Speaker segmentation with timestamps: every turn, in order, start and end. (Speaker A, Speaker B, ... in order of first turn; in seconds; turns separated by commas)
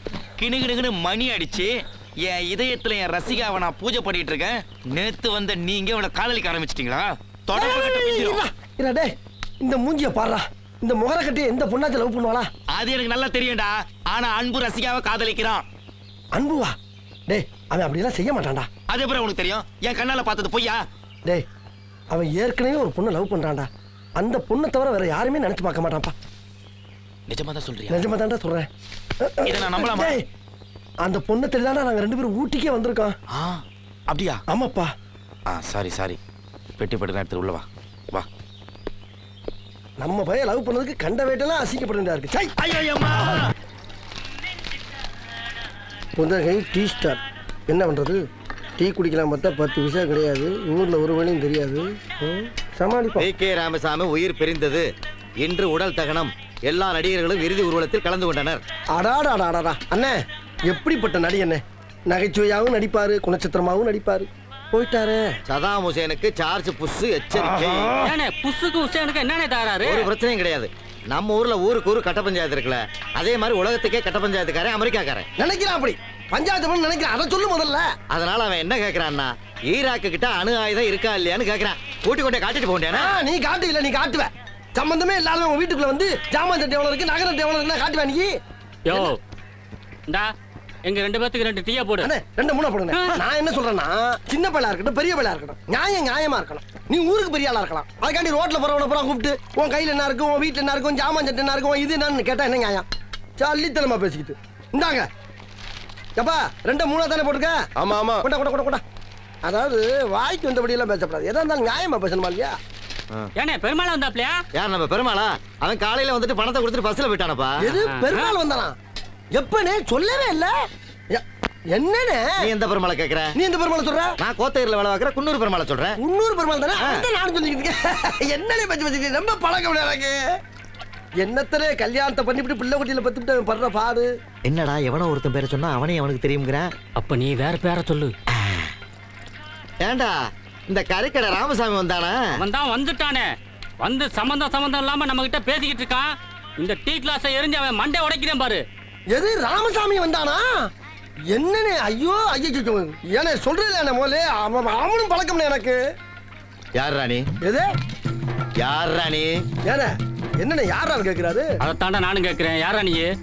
Speaker A: 0.4-8.4, Speaker B: 7.5-12.5, Speaker A: 12.7-15.7, Speaker B: 16.3-16.8, Speaker B: 17.3-18.7, Speaker A: 18.9-20.8, Speaker B: 22.1-26.1, Speaker A: 27.3-28.1, Speaker B: 27.9-28.7, Speaker B: 29.2-30.2, Speaker A: 29.4-30.2, Speaker B: 31.0-33.2, Speaker A: 33.4-34.4, Speaker B: 34.5-34.9, Speaker A: 35.5-36.2, Speaker A: 36.8-38.3, Speaker B: 40.0-42.6, Speaker A: 42.6-43.5, Speaker B: 46.2-48.2, Speaker B: 48.8-53.3, Speaker C: 53.2-58.6, Speaker B: 58.9-60.2, Speaker B: 60.7-65.2, Speaker C: 65.5-68.0, Speaker B: 67.3-68.1, Speaker D: 68.0-70.1, Speaker C: 69.8-75.3, Speaker B: 75.4-77.9, Speaker C: 78.1-83.2, Speaker B: 82.9-88.3, Speaker D: 88.9-89.2, Speaker D: 90.9-92.1, Speaker B: 92.0-102.9, Speaker D: 92.9-93.2, Speaker B: 103.4-105.1, Speaker B: 106.2-107.6, Speaker B: 108.2-108.8, Speaker B: 109.5-112.6, Speaker D: 113.4-114.4, Speaker C: 114.5-117.6, Speaker B: 117.6-118.8, Speaker D: 117.8-118.4, Speaker B: 119.3-120.5, Speaker B: 121.1-122.5, Speaker C: 122.4-123.3, Speaker B: 123.3-124.2, Speaker C: 124.2-126.0, Speaker B: 126.0-130.2, Speaker C: 126.8-127.1, Speaker B: 131.2-134.1, Speaker C: 134.4-136.7, Speaker D: 137.0-138.1, Speaker C: 139.8-140.2, Speaker C: 140.7-142.4, Speaker D: 142.3-143.3, Speaker D: 143.8-148.6, Speaker B: 149.1-150.5, Speaker B: 151.3-155.8, Speaker C: 156.8-157.3, Speaker B: 157.4-157.7, Speaker C: 158.6-159.4, Speaker B: 159.7-161.6, Speaker D: 161.6-163.1